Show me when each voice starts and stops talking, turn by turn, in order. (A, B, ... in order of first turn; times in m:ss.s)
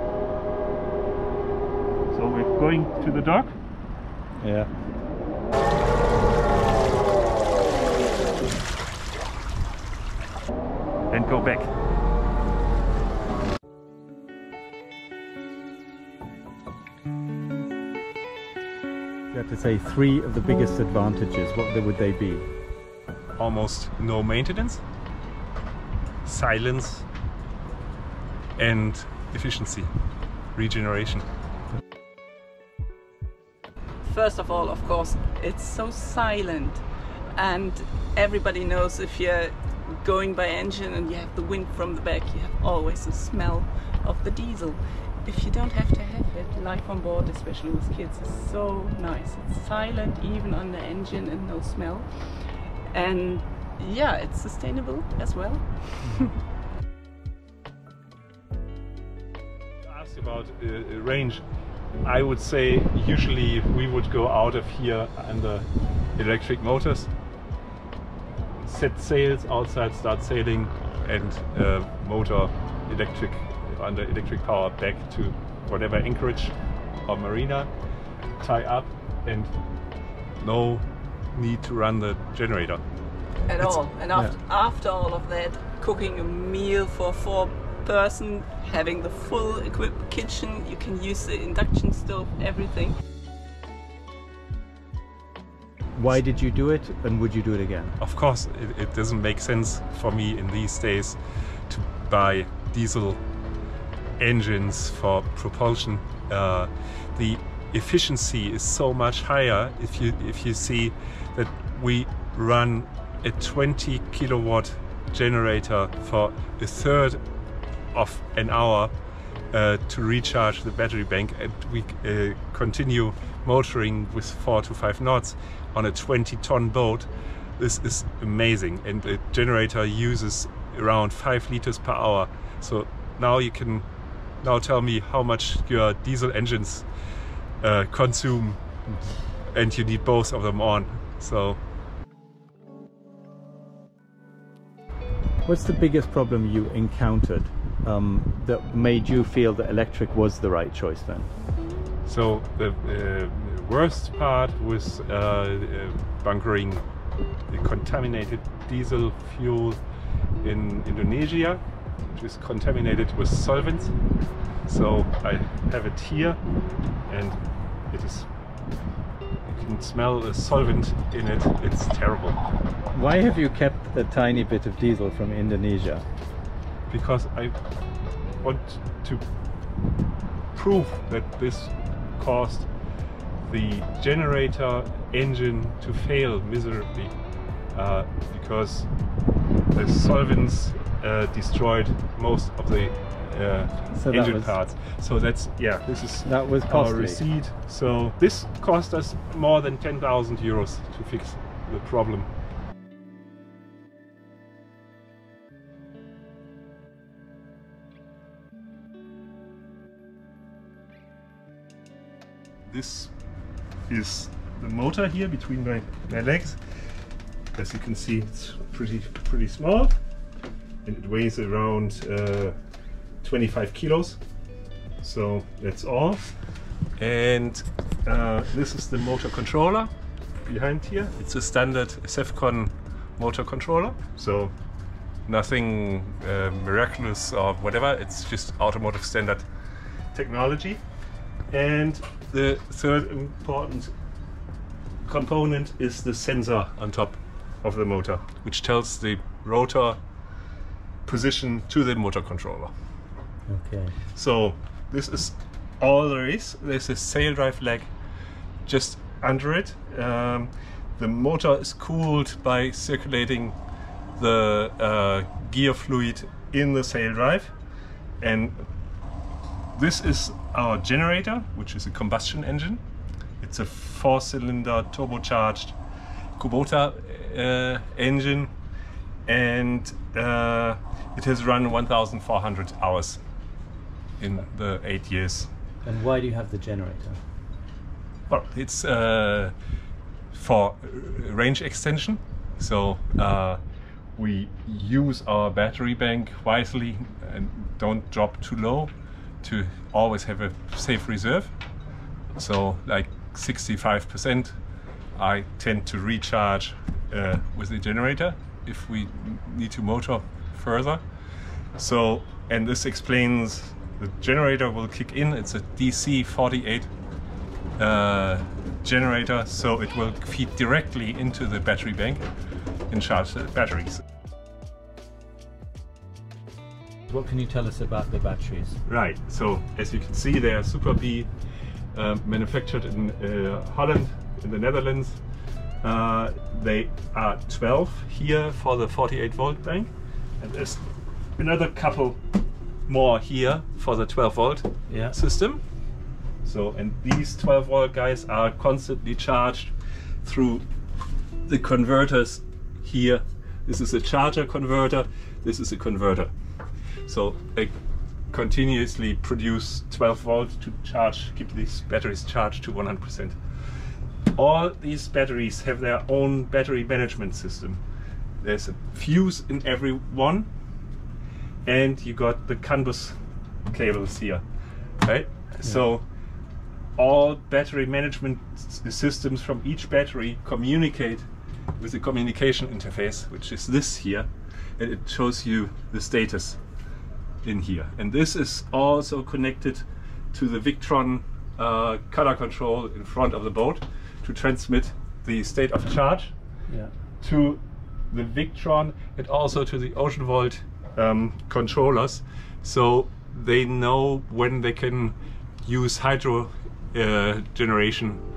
0:02.1-0:03.5 A
0:04.4-0:04.7 B
0:11.1-0:11.7 A
0:19.3-0:22.5 B
0:23.4-0:24.8 A
0:26.2-0:27.1 A
0:28.6-0:29.9 A
0:30.5-0:31.2 A
0:34.0-0:36.8 C
0:37.4-0:56.3 C
0:56.0-0:56.3 B
0:59.8-1:01.4 A
1:02.0-1:07.1 A
1:08.6-1:17.7 A
1:18.4-1:19.5 A
1:20.4-1:22.8 A
1:23.5-1:33.0 C
1:36.0-1:38.0 B
1:38.0-1:43.2 A
1:44.2-1:57.2 A
1:57.9-1:58.9 A
1:59.5-2:13.8 A
2:14.4-2:16.9 A
2:17.6-2:18.6 A
2:19.5-2:21.6 A
2:25.4-2:31.3 B
2:32.0-2:36.8 A
2:37.5-2:39.8 A
2:40.4-2:44.0 A
2:44.7-2:46.4 A
2:47.1-2:48.3 A
2:49.4-2:52.4 A
2:52.9-2:56.0 B
2:56.9-2:57.5 A
2:58.4-2:59.2 A
3:00.5-3:02.7 A
3:03.5-3:07.1 A
3:07.7-3:08.9 A
3:09.7-3:22.3 A
3:14.0-3:14.6 B
3:16.2-3:17.2 B
3:32.7-3:33.1 A
3:33.9-3:36.8 A
3:37.5-3:40.0 A
3:40.8-3:42.6 A
3:43.2-3:44.2 A
3:45.0-3:46.3 A
3:47.0-3:49.9 A
3:50.4-3:54.5 A
3:55.3-3:59.4 A
4:00.1-4:00.8 A
4:01.5-4:03.9 A
4:05.0-4:10.0 A
4:11.0-4:12.7 A
4:13.5-4:14.0 B
4:14.1-4:17.9 A
4:18.6-4:23.6 A
4:24.2-4:27.5 A
4:28.2-4:28.6 A
4:29.7-4:32.8 A
4:33.4-4:35.8 A
4:36.4-4:38.5 A
4:39.2-4:43.2 A
4:44.2-4:45.5 A
4:45.8-4:47.2 B
4:48.3-4:49.5 A
4:50.3-4:53.6 A
4:54.2-5:01.5 A
5:02.4-5:04.6 A
5:05.2-5:11.0 A
5:11.8-5:16.9 A
5:17.8-5:22.2 A
5:22.9-5:24.0 A
5:27.1-5:28.8 B
5:28.8-5:31.3 A
5:31.9-5:35.2 A
5:35.8-5:40.8 A
5:41.4-5:42.2 A
5:42.9-5:45.6 A
5:44.9-5:45.1 B
5:46.4-5:50.6 A
5:51.4-5:56.3 A
5:57.0-5:57.7 A
5:58.3-6:03.4 A
6:04.3-6:07.8 A
6:08.4-6:10.5 A
6:11.6-6:14.4 A
6:15.0-6:16.0 A
6:17.0-6:26.6 A
6:27.4-6:36.3 A
6:37.2-6:48.2 A